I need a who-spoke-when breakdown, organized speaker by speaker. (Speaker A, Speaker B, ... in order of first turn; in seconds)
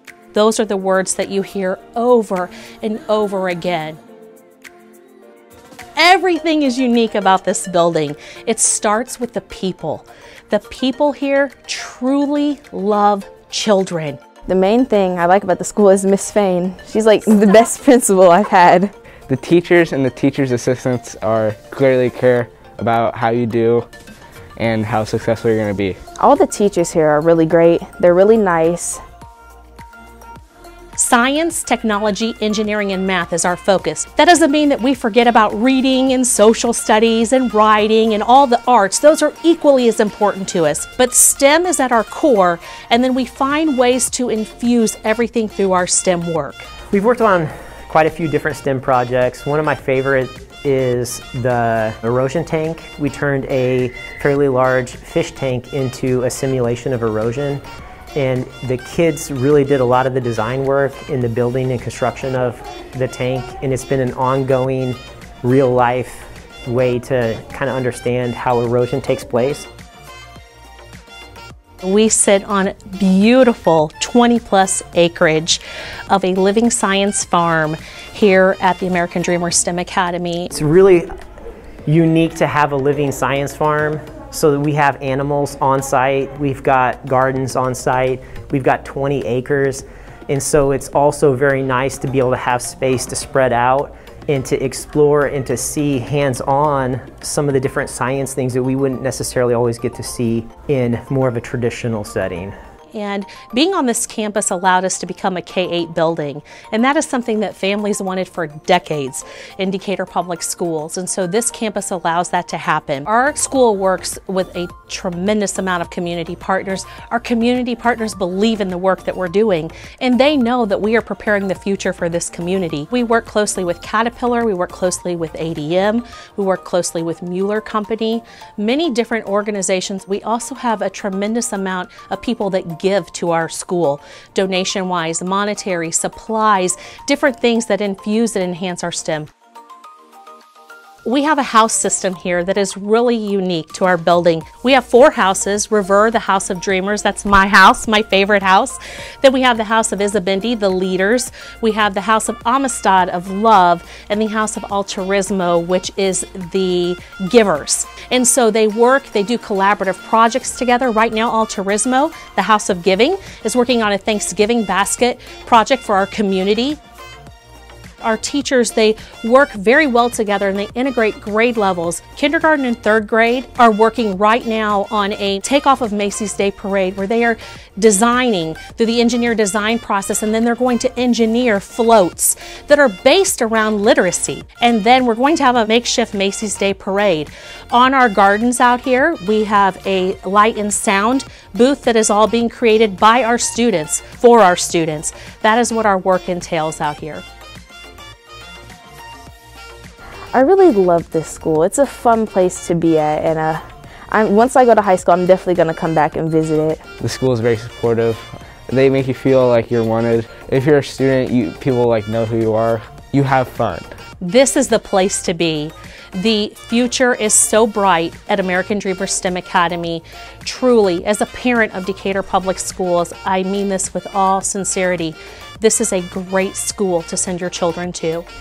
Speaker A: 0.3-4.0, 6.0-14.2, 30.9-46.6, 71.8-80.5, 102.9-139.3, 141.0-166.8, 168.0-197.2, 214.2-228.2
Speaker B: 14.5-18.9, 26.2-29.0, 200.3-206.8
Speaker C: 19.3-23.9, 24.6-26.0, 207.0-213.9
Speaker D: 46.9-57.6, 58.1-69.7, 80.5-81.1, 81.9-102.5